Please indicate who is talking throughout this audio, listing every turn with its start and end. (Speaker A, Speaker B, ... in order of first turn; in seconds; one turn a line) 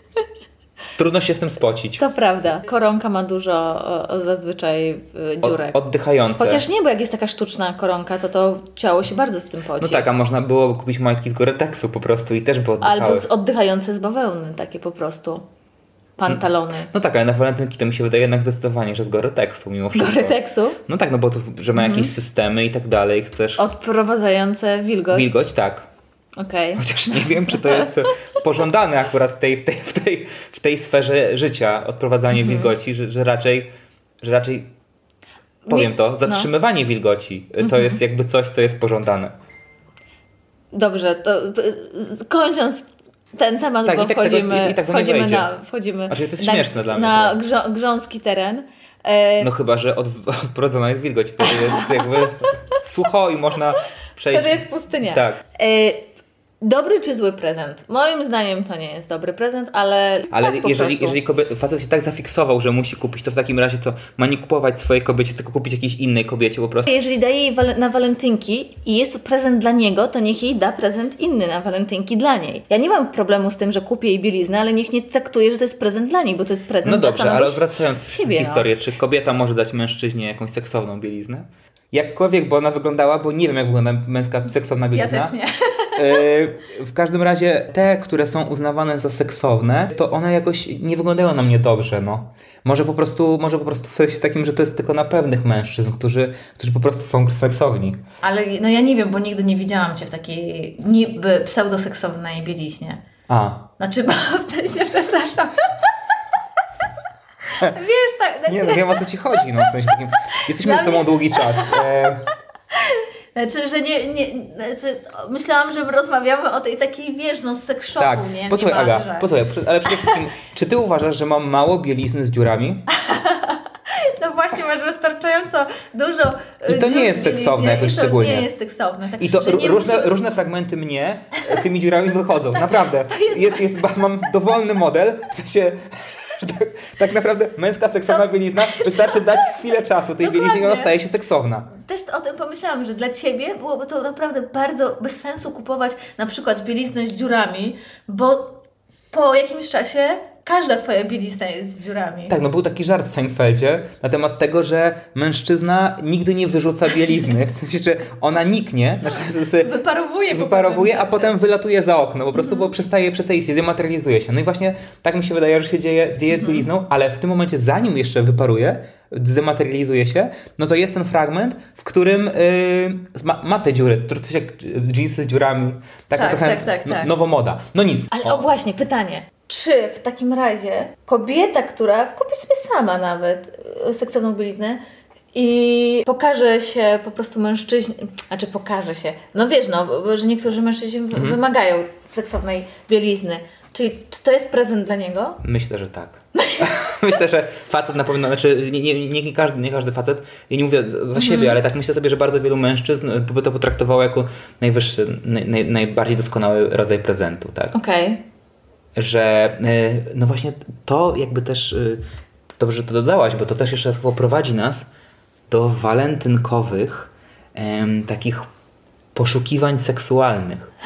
Speaker A: 0.9-2.0
Speaker B: 2.0-5.8
Speaker A: 5.4-6.6
Speaker B: 6.4-10.1
Speaker A: 9.8-13.3
Speaker B: 12.8-15.4
Speaker B: 16.2-16.9
Speaker A: 16.3-23.6
Speaker B: 19.9-20.8
Speaker B: 21.7-22.1
Speaker B: 23.6-25.3
Speaker A: 25.1-25.9
Speaker B: 26.4-27.9
Speaker A: 26.8-33.7
Speaker B: 32.3-32.7
Speaker A: 34.2-34.7
Speaker B: 35.6-36.5
Speaker A: 35.7-39.3
Speaker B: 37.6-38.0
Speaker B: 40.7-49.5
Speaker A: 43.9-45.5
Speaker A: 46.1-47.4
Speaker A: 49.4-55.4
Speaker B: 51.5-52.1
Speaker B: 54.3-56.1
Speaker B: 56.6-61.2
Speaker A: 60.3-66.9
Speaker B: 66.8-78.7
Speaker A: 76.8-85.3
Speaker B: 84.9-86.2
Speaker A: 86.0-98.0
Speaker B: 98.2-103.0
Speaker A: 103.3-103.7
Speaker B: 103.8-105.8
Speaker B: 107.6-109.6
Speaker A: 108.5-112.3
Speaker B: 110.5-111.8
Speaker B: 112.8-119.3
Speaker A: 118.0-122.8
Speaker B: 119.8-120.2
Speaker B: 122.9-130.1
Speaker A: 126.7-128.5
Speaker A: 129.2-141.7
Speaker B: 132.5-133.9
Speaker B: 138.1-139.5
Speaker B: 140.2-140.9
Speaker B: 141.8-152.3
Speaker A: 152.3-159.7
Speaker B: 159.6-161.3
Speaker A: 160.3-178.5
Speaker B: 162.3-162.7
Speaker B: 166.3-166.7
Speaker B: 176.1-177.1
Speaker B: 178.1-184.8
Speaker B: 185.3-195.4
Speaker A: 195.4-207.7
Speaker B: 196.4-196.7
Speaker B: 201.2-201.6
Speaker B: 207.7-208.2
Speaker A: 208.9-212.0
Speaker A: 212.6-214.9
Speaker A: 215.5-218.5
Speaker A: 219.2-220.7